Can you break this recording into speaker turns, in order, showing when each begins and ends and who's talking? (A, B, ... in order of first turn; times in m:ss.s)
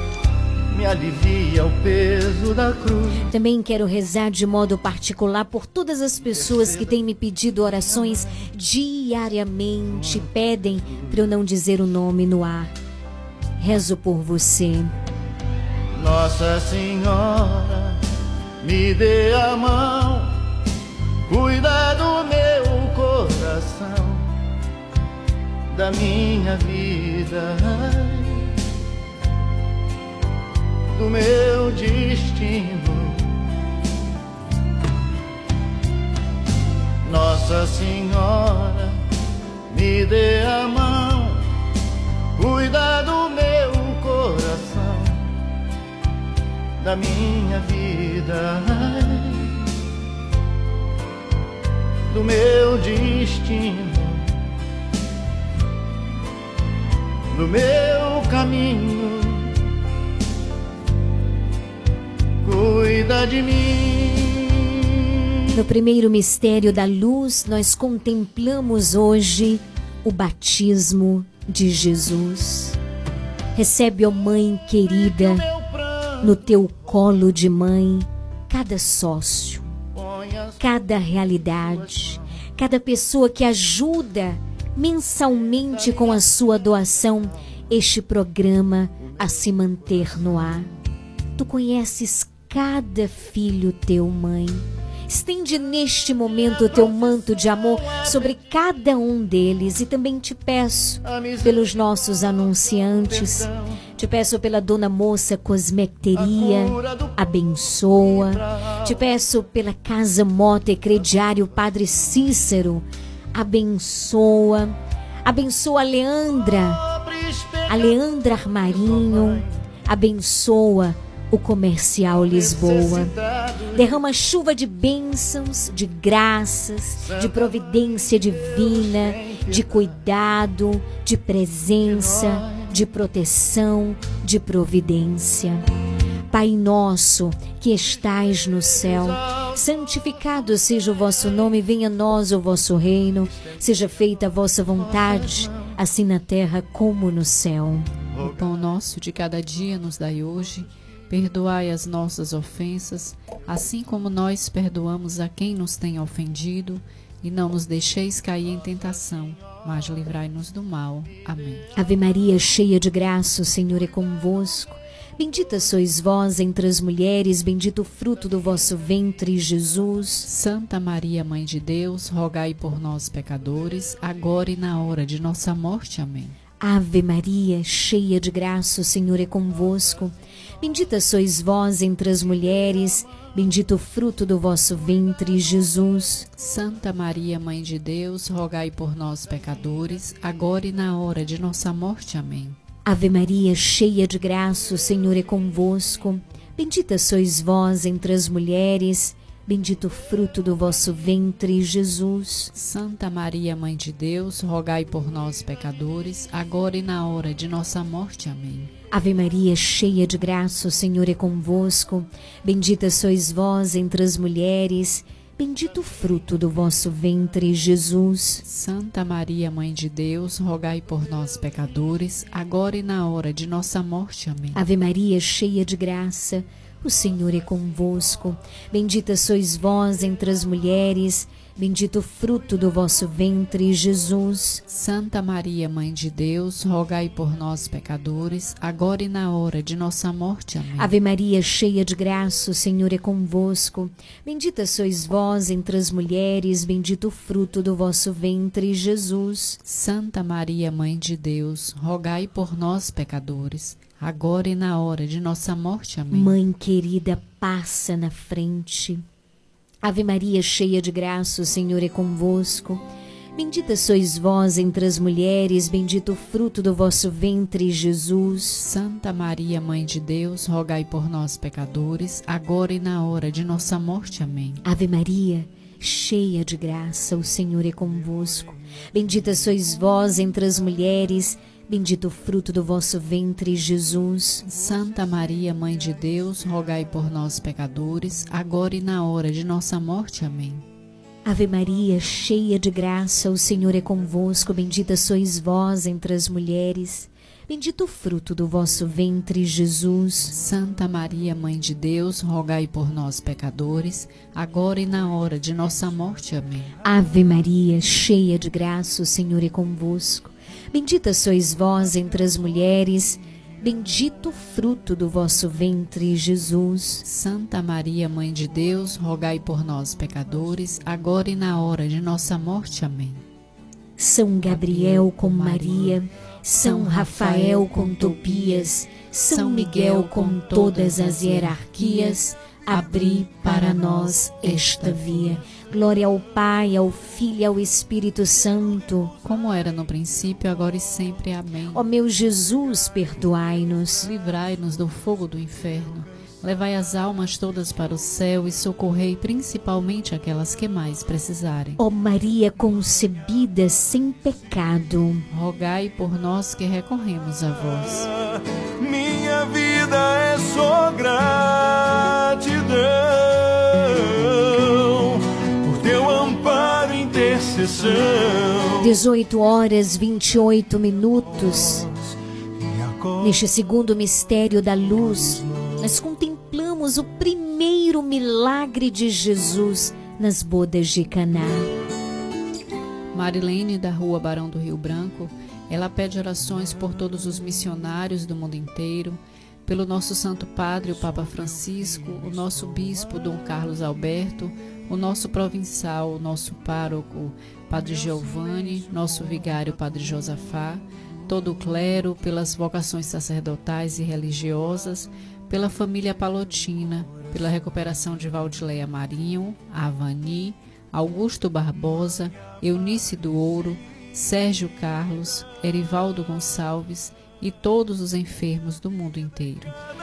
0:00.7-0:03.2 A
0:03.3-0:12.7 B
0:13.6-0:14.9 B
0:16.0-0:18.0 A
0:18.6-0:20.3 A
0:21.3-0:24.2 A
0:25.7-0:28.4 A
0:31.0-0:33.2 A
0:37.0-0:39.0 A
0:39.7-0:41.4 A
0:42.4-0:45.3 A
0:46.8-0:49.4 A
0:52.1-0:54.3 A
0:57.3-0:59.5 A
1:02.4-1:05.1 A
1:05.5-1:12.8 B
1:13.6-1:15.4 B
1:15.0-1:16.4 A
1:16.2-1:19.7 B
1:20.0-1:22.2 A
1:20.6-1:30.7 B
1:25.7-1:26.2 A
1:31.4-1:56.8 B
1:36.7-1:38.4 A
1:41.0-1:41.7 A
1:42.4-1:43.8 A
1:46.1-1:47.2 A
1:47.9-1:49.0 A
1:56.9-1:59.5 A
1:57.7-2:03.1 B
2:02.2-2:04.0 A
2:03.8-2:15.6 B
2:07.0-2:09.9 A
2:11.8-2:12.7 A
2:16.3-2:27.9 B
2:18.8-2:19.6 A
2:24.8-2:25.7 A
2:28.2-2:28.4 A
2:28.2-2:41.6 C
2:41.8-2:50.3 B
2:50.2-2:56.4 C
2:56.6-3:06.3 B
3:06.4-3:12.6 C
3:12.8-3:22.5 B
3:22.6-3:28.7 C
3:28.9-3:38.4 B
3:38.4-3:44.6 C
3:44.6-3:54.6 B
3:54.7-4:00.9 C
4:00.8-4:09.6 B
4:09.6-4:16.4 C
4:16.1-4:19.0 B
4:19.8-4:22.8 B
4:23.4-4:28.6 B
4:28.6-4:34.6 C
4:34.6-4:44.4 B
4:44.4-4:50.6 C
4:51.2-5:00.4 B
5:00.3-5:06.7 C
5:06.8-5:17.0 B
5:17.0-5:23.2 C
5:24.0-5:39.1 B
5:24.5-5:26.0 C
5:26.6-5:28.7 C
5:29.3-5:35.4 C
5:39.2-5:41.8 C
5:41.7-5:44.1 B
5:44.0-5:51.8 C
5:51.8-5:55.2 B
5:55.3-5:58.1 C
5:58.8-6:08.9 D
6:08.8-6:11.8 B
6:12.9-6:13.2 D
6:13.2-6:21.7 B
6:23.1-6:59.8 C